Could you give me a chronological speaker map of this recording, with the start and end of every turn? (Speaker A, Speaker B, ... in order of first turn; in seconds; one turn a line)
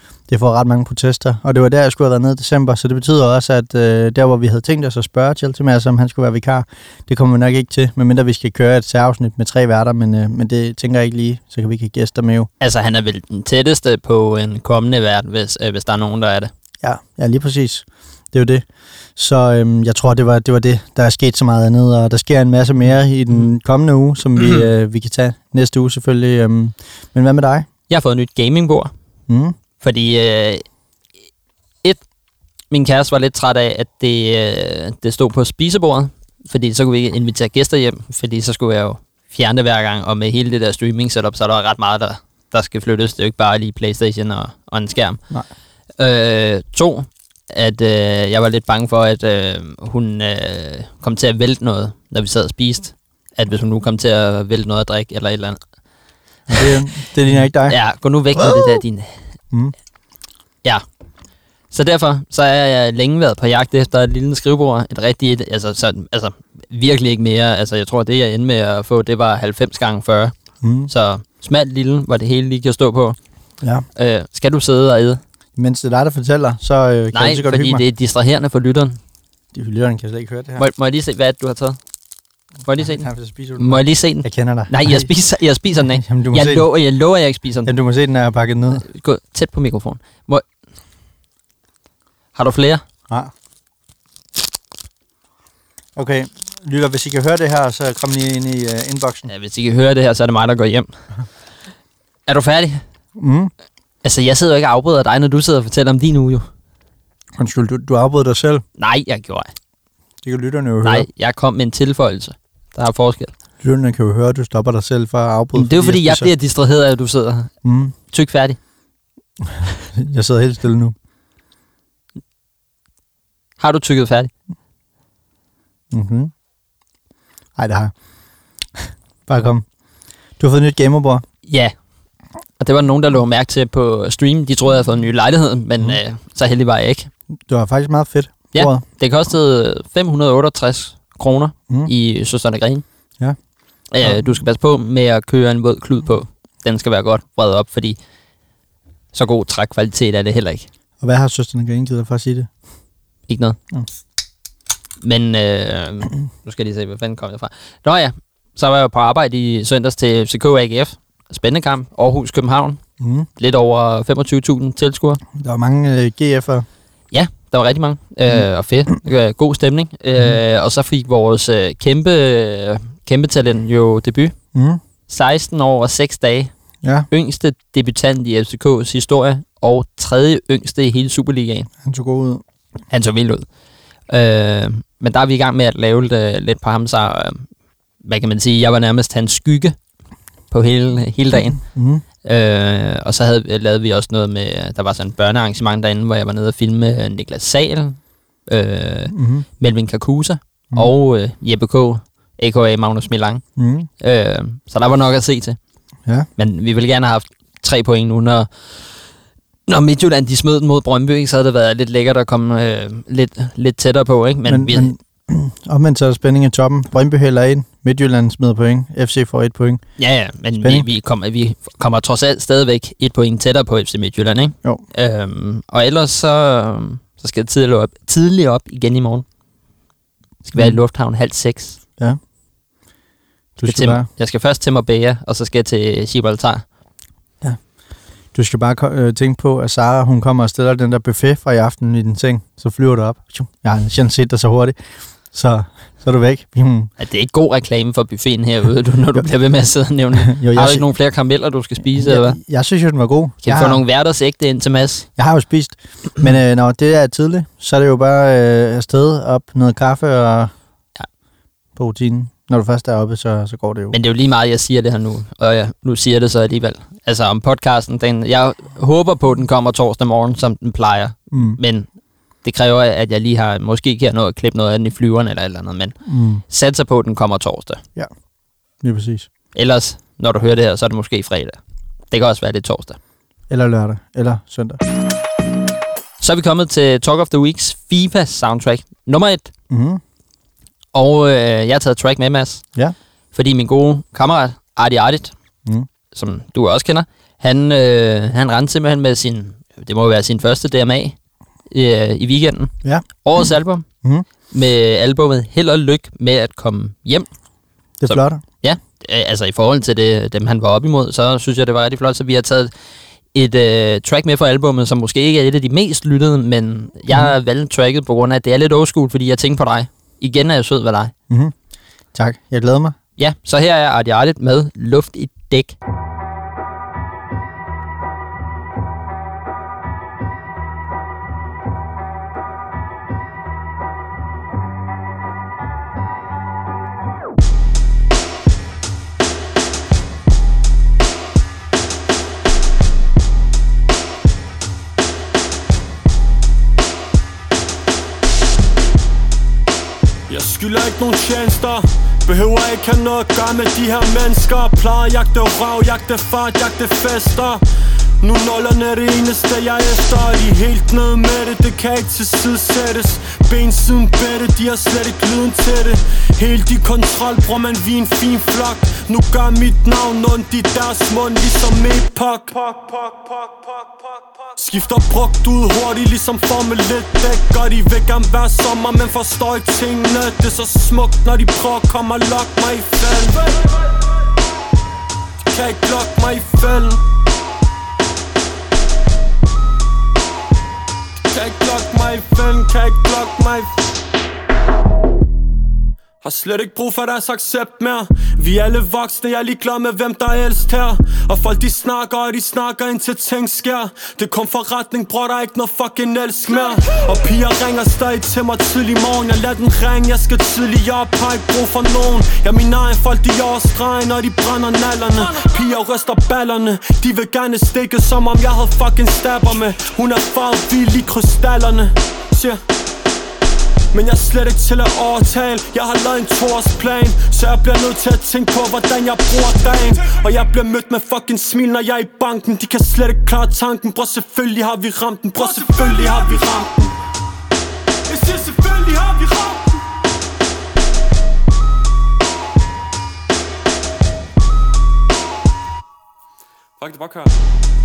Speaker A: 0.3-12.5
Speaker B: 12.6-16.5
Speaker A: 16.8-27.7
Speaker B: 27.9-28.9
Speaker A: 29.3-29.6
Speaker B: 29.8-30.6
Speaker B: 32.7-45.2
Speaker B: 46.0-55.6
Speaker A: 56.5-57.8
Speaker B: 57.7-59.2
Speaker A: 58.4-58.8
Speaker B: 61.7-70.3
Speaker A: 70.6-70.9
Speaker B: 70.9-73.2
Speaker A: 73.6-73.9
Speaker B: 74.0-75.2
Speaker A: 75.6-77.8
Speaker B: 77.1-79.0
Speaker A: 79.5-80.7
Speaker B: 80.6-81.8
Speaker B: 82.7-87.7
Speaker A: 82.8-85.1
Speaker A: 85.8-86.7
Speaker A: 87.7-88.8
Speaker B: 88.8-90.5
Speaker B: 92.3-92.8
Speaker A: 96.0-99.3
Speaker B: 99.3-101.0
Speaker B: 102.3-102.8
Speaker A: 103.2-103.5
Speaker B: 104.0-106.5
Speaker A: 107.4-108.7
Speaker B: 108.8-109.5
Speaker A: 110.2-111.1
Speaker B: 110.8-113.3
Speaker A: 113.6-116.3
Speaker B: 115.5-117.5
Speaker A: 117.6-118.0
Speaker B: 118.1-118.6
Speaker A: 119.9-121.0
Speaker B: 123.6-124.3
Speaker A: 125.9-126.3
Speaker A: 127.6-128.0
Speaker A: 128.8-129.7
Speaker A: 130.4-131.3
Speaker B: 131.5-131.7
Speaker B: 132.6-137.1
Speaker A: 137.5-138.8
Speaker B: 138.5-142.8
Speaker B: 143.9-148.0
Speaker A: 144.0-144.4
Speaker B: 149.1-150.7
Speaker A: 151.0-152.5
Speaker B: 153.3-153.6
Speaker B: 155.0-162.8
Speaker A: 163.0-163.3
Speaker B: 163.4-165.2
Speaker A: 165.3-166.7
Speaker B: 167.1-174.4
Speaker A: 174.5-174.8
Speaker B: 175.1-176.5
Speaker A: 176.8-177.1
Speaker B: 177.1-181.7
Speaker A: 181.8-182.4
Speaker B: 182.9-183.5
Speaker B: 184.1-187.5
Speaker B: 188.0-189.8
Speaker B: 190.5-191.6
Speaker A: 191.5-192.0
Speaker B: 192.2-203.4
Speaker A: 199.1-199.5
Speaker A: 203.6-203.9
Speaker B: 204.0-205.6
Speaker B: 206.4-209.1
Speaker B: 209.7-214.9
Speaker A: 214.5-219.9
Speaker B: 220.0-229.2
Speaker A: 220.6-220.9
Speaker B: 230.5-231.8
Speaker A: 230.5-230.8
Speaker A: 233.6-234.1
Speaker B: 233.7-236.7
Speaker A: 238.3-244.8
Speaker A: 245.3-246.9
Speaker B: 247.0-252.4
Speaker A: 250.2-250.9
Speaker A: 251.8-253.8
Speaker B: 253.4-255.1
Speaker A: 255.2-260.5
Speaker A: 261.8-264.0
Speaker B: 263.9-271.9
Speaker A: 271.3-271.6
Speaker B: 272.4-276.0
Speaker A: 276.1-276.4
Speaker B: 276.5-277.8
Speaker A: 278.8-279.3
Speaker B: 279.6-281.6
Speaker B: 282.1-283.0
Speaker A: 283.5-284.8
Speaker B: 286.2-289.5
Speaker A: 289.7-290.0
Speaker B: 290.9-292.6
Speaker B: 293.3-295.3
Speaker B: 296.1-301.2
Speaker B: 301.7-303.9
Speaker A: 302.8-303.5
Speaker B: 304.5-307.3
Speaker A: 308.0-308.4
Speaker B: 308.1-312.7
Speaker B: 313.3-321.1
Speaker A: 321.3-321.6
Speaker A: 322.1-323.0
Speaker B: 323.2-325.8
Speaker C: 350.3-357.6
Speaker C: 358.2-373.9
Speaker C: 374.5-383.7
Speaker C: 385.5-387.0
Speaker C: 391.3-393.7
Speaker C: 396.2-422.6
Speaker C: 423.9-436.9
Speaker C: 438.1-439.6
Speaker C: 446.8-447.3